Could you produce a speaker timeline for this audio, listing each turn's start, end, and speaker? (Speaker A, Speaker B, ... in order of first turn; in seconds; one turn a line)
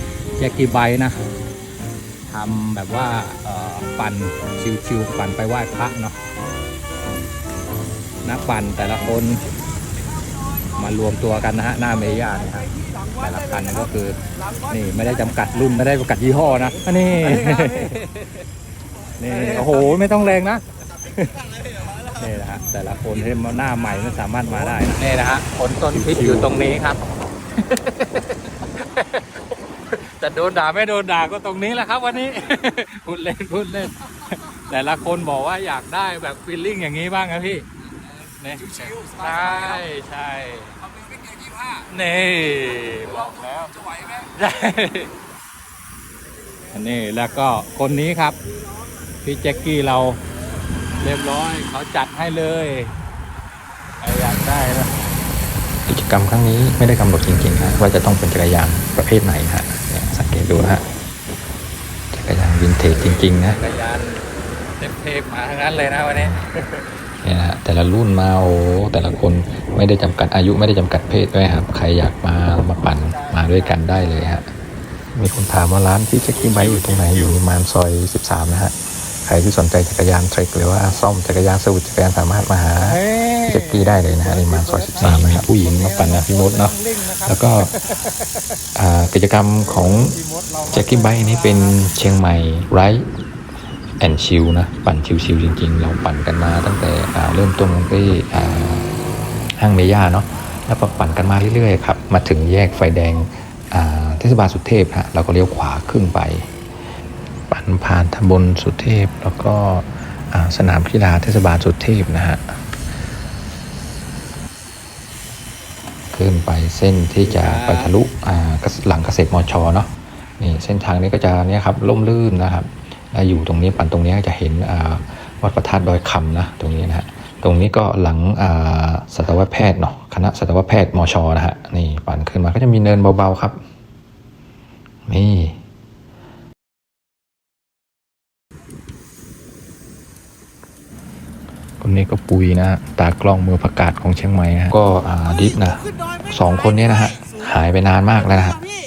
Speaker A: 0.4-1.2
Speaker A: 2.3-6.2
Speaker A: 8.2-9.4
Speaker A: 10.7-18.1
Speaker A: 19.2-20.6
Speaker A: 22.0-27.0
Speaker A: 27.7-28.1
Speaker A: 28.6-37.6
Speaker A: 38.3-40.8
Speaker A: 41.4-45.1
Speaker A: 46.7-48.4
Speaker A: 49.2-50.2
Speaker A: 51.0-52.9
Speaker A: 54.0-54.9
Speaker B: 55.9-60.8
Speaker B: 62.1-63.6
Speaker A: 62.9-64.2
Speaker A: 64.8-66.8
Speaker B: 66.2-66.5
Speaker B: 67.2-74.5
Speaker A: 72.9-73.9
Speaker B: 75.1-87.7
Speaker A: 76.5-76.8
Speaker A: 82.8-88.2
Speaker B: 88.7-90.2
Speaker A: 89.6-91.8
Speaker B: 90.7-93.1
Speaker B: 94.0-98.9
Speaker B: 99.6-106.5
Speaker B: 107.5-112.6
Speaker B: 116.1-133.6
Speaker A: 117.2-117.9
Speaker B: 135.1-135.6
Speaker B: 141.8-148.7